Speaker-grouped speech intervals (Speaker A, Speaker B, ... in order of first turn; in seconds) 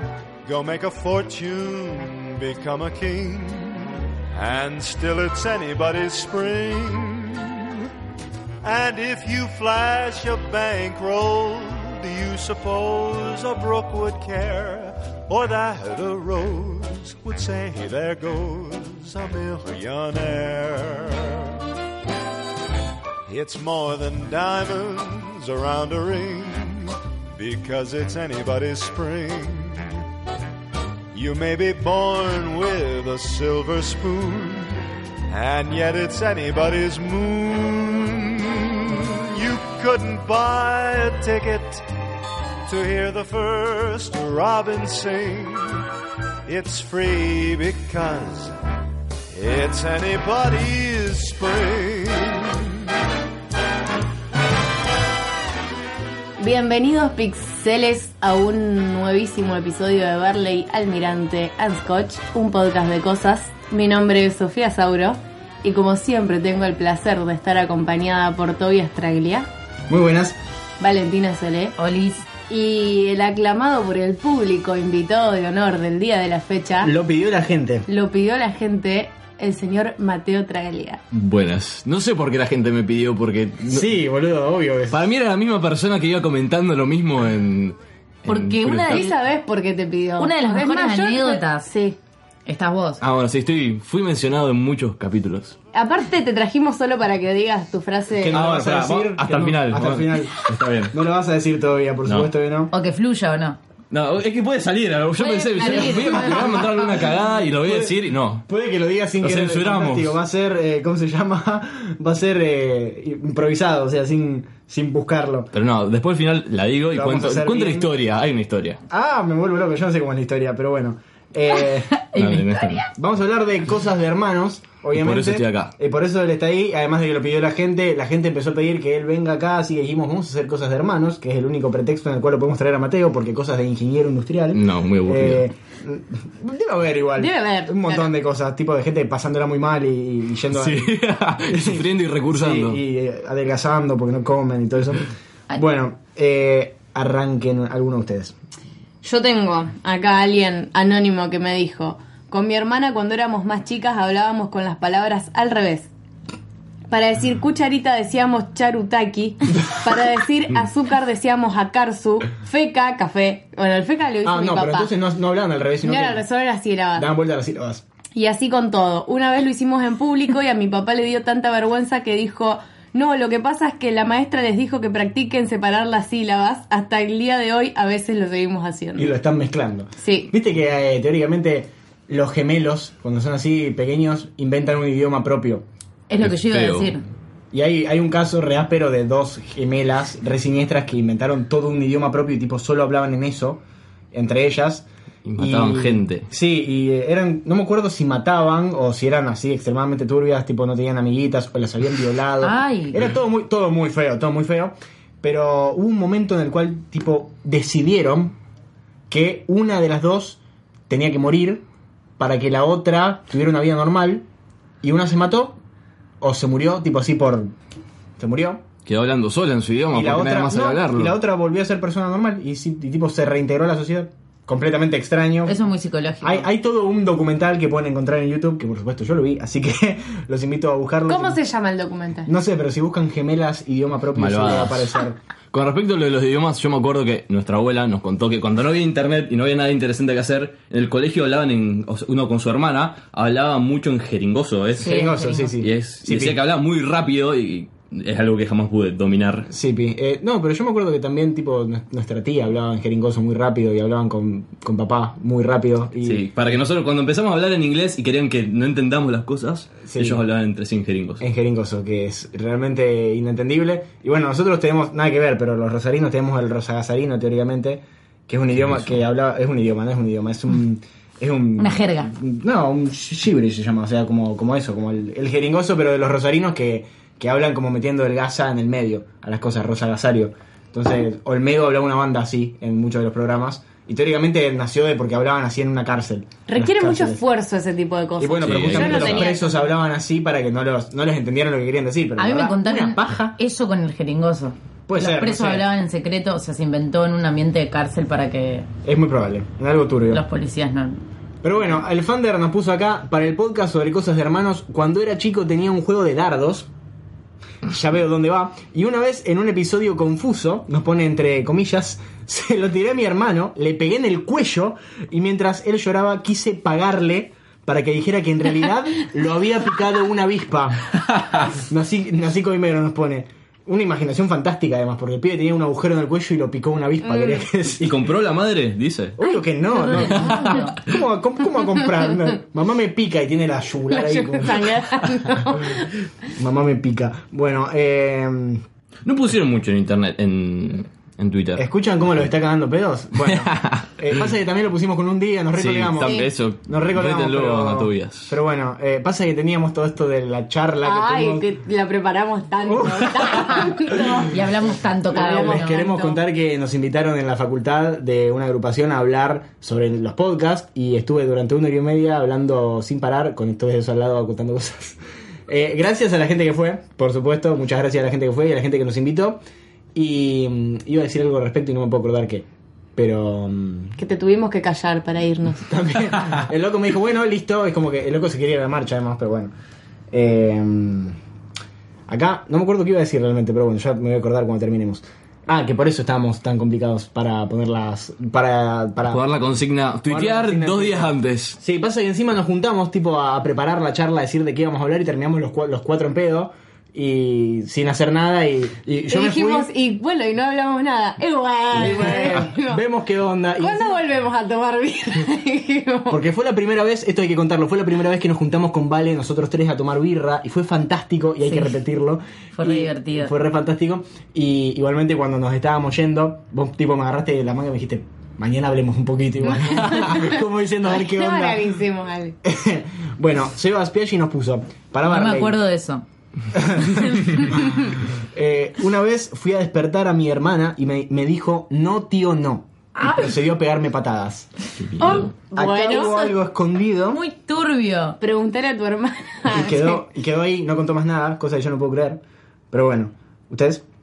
Speaker A: 0.4-7.8, 8.6-21.5, 23.3-29.9, 31.1-34.8, 35.3-41.9, 42.6-45.8, 46.5-48.5, 49.3-52.8
Speaker B: 56.4-69.5, 70.8-71.8, 72.5-76.9, 77.9-81.0, 88.8-92.0, 95.7-98.4, 105.6-106.5, 137.2-138.1, 149.0-155.9, 156.9-164.9, 165.8-167.1, 168.1-179.1, 180.0-180.3, 231.1-232.3, 286.5-289.6, 327.0-327.4, 333.9-335.9, 346.0-346.3, 350.8-354.4, 355.1-355.9, 374.0-375.6, 399.1-402.8, 403.6-406.2, 419.5-422.4, 435.0-436.2, 438.2-440.0
Speaker C: 69.9-70.4, 76.8-77.9, 83.6-85.0, 98.1-100.4, 100.9-102.7, 106.5-115.5, 116.9-117.9, 118.9-122.0, 122.9-140.9, 141.5-148.3, 164.2-166.2, 166.9-167.8, 178.9-185.6, 187.5-193.6, 194.1-194.8, 195.4-208.4, 209.1-211.6, 212.2-214.2, 214.8-215.6, 216.2-217.5, 218.2-218.6, 219.9-225.6, 226.2-231.4, 232.3-235.2, 244.8-246.4, 249.5-256.2, 259.9-260.2, 261.2-287.2, 288.2-293.4, 294.9-295.7, 298.8-300.2, 301.4-306.7, 307.6-320.9, 321.5-328.1, 329.2-334.9, 336.3-338.6, 341.6-351.4, 352.6-354.2, 355.1-369.4, 369.9-374.0, 375.5-379.5, 380.1-381.2, 382.1-389.2, 390.1-399.7, 401.7-404.0, 406.1-421.8, 422.4-425.6, 426.5-434.5, 435.5-437.2, 439.5-443.8
Speaker D: 71.8-72.3, 88.3-89.2, 90.2-91.7, 92.5-93.0, 102.7-103.6, 105.2-106.8, 122.0-122.8, 186.1-187.0, 202.4-203.0, 225.5-226.5, 244.8-245.5, 271.6-272.1, 292.2-298.7, 300.1-301.0, 329.8-330.7, 354.3-356.1, 412.5-413.3, 425.1-426.0, 432.9-433.4, 435.2-436.3, 437.1-438.2
Speaker E: 81.1-83.9, 84.9-89.0, 93.0-95.5, 98.3-100.9, 102.0-102.3, 103.9-108.4, 109.2-110.2, 115.5-118.8, 122.2-122.8, 124.9-125.7, 134.5-135.4, 140.5-142.8, 186.2-186.9, 195.2-196.3, 218.8-221.1, 234.2-234.9, 235.5-245.0, 245.6-249.5, 256.0-261.2, 268.5-268.9, 288.4-289.4, 321.1-321.4, 327.8-329.1, 330.1-330.6, 339.0-341.6, 343.2-343.9, 345.5-348.3, 389.1-391.6, 434.8-435.3